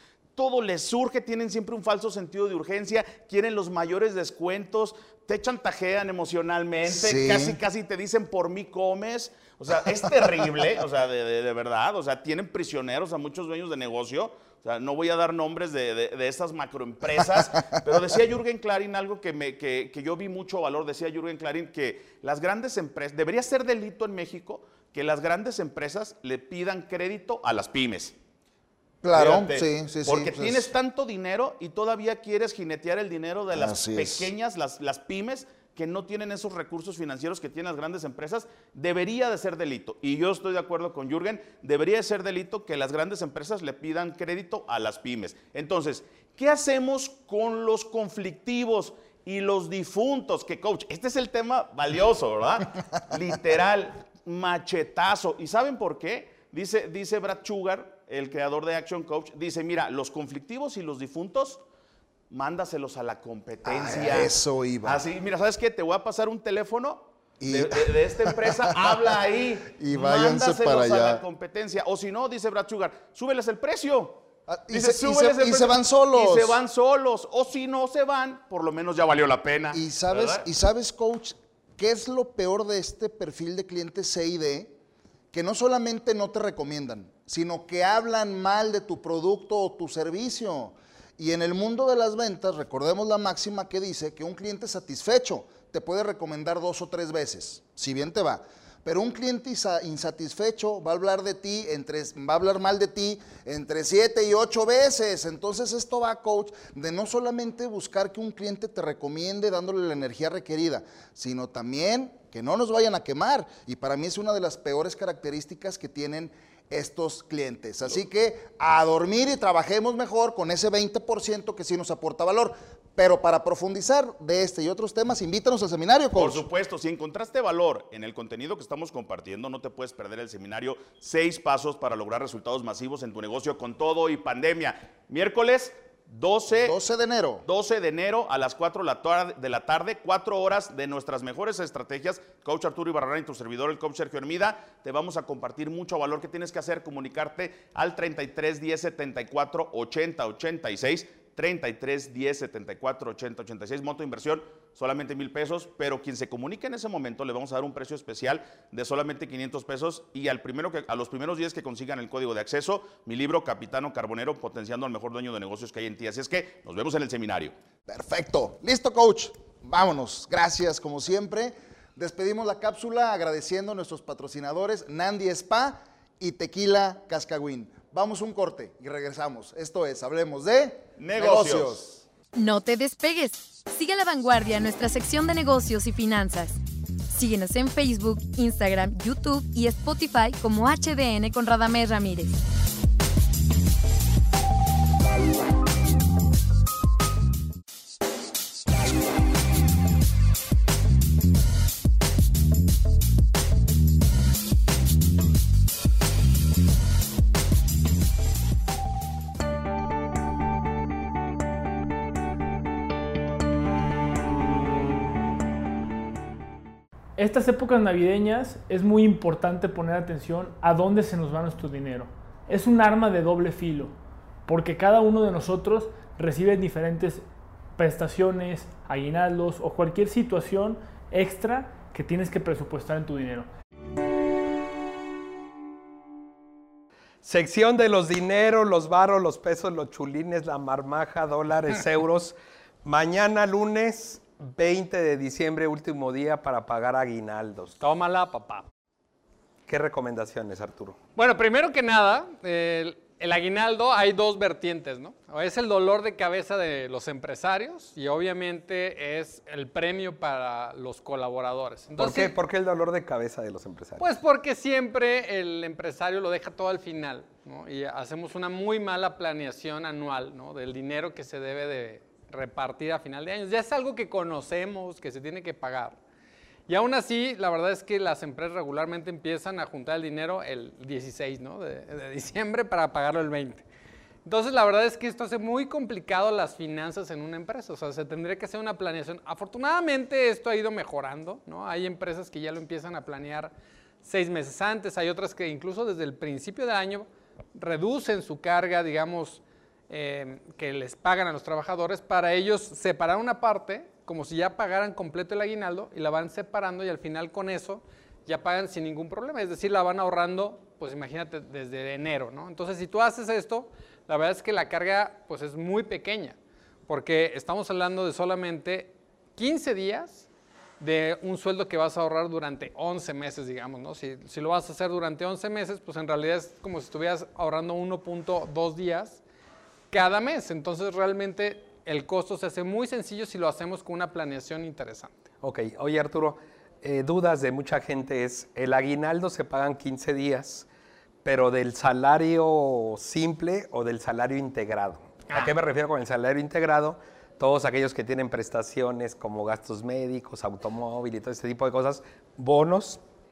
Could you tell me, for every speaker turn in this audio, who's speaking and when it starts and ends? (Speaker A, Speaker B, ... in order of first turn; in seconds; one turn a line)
Speaker A: 0.3-28.1
Speaker B: 6.9-7.6
Speaker B: 29.0-30.7
Speaker A: 29.1-61.6
Speaker B: 33.5-34.3
Speaker A: 62.3-80.5
Speaker B: 63.6-65.0
Speaker B: 67.4-69.2
Speaker B: 69.7-71.2
Speaker B: 74.5-76.6
Speaker B: 79.7-84.7
Speaker B: 85.3-126.4
Speaker A: 126.1-136.8
Speaker B: 136.6-137.4
Speaker A: 137.4-167.5
Speaker B: 167.9-182.0
Speaker A: 181.0-181.8
Speaker C: 182.3-186.6
Speaker C: 187.1-192.4
Speaker D: 217.2-223.9
Speaker D: 224.5-233.5
Speaker E: 237.2-247.8
Speaker F: 247.8-248.7
Speaker E: 249.7-251.0
Speaker F: 251.2-262.3
Speaker E: 262.0-264.1
Speaker F: 264.0-276.0
Speaker F: 276.7-283.6
Speaker F: 284.2-293.5
Speaker F: 294.0-320.3
Speaker F: 320.8-329.2
Speaker F: 329.9-335.2
Speaker E: 335.4-340.7
Speaker E: 341.2-353.0
Speaker F: 345.3-345.5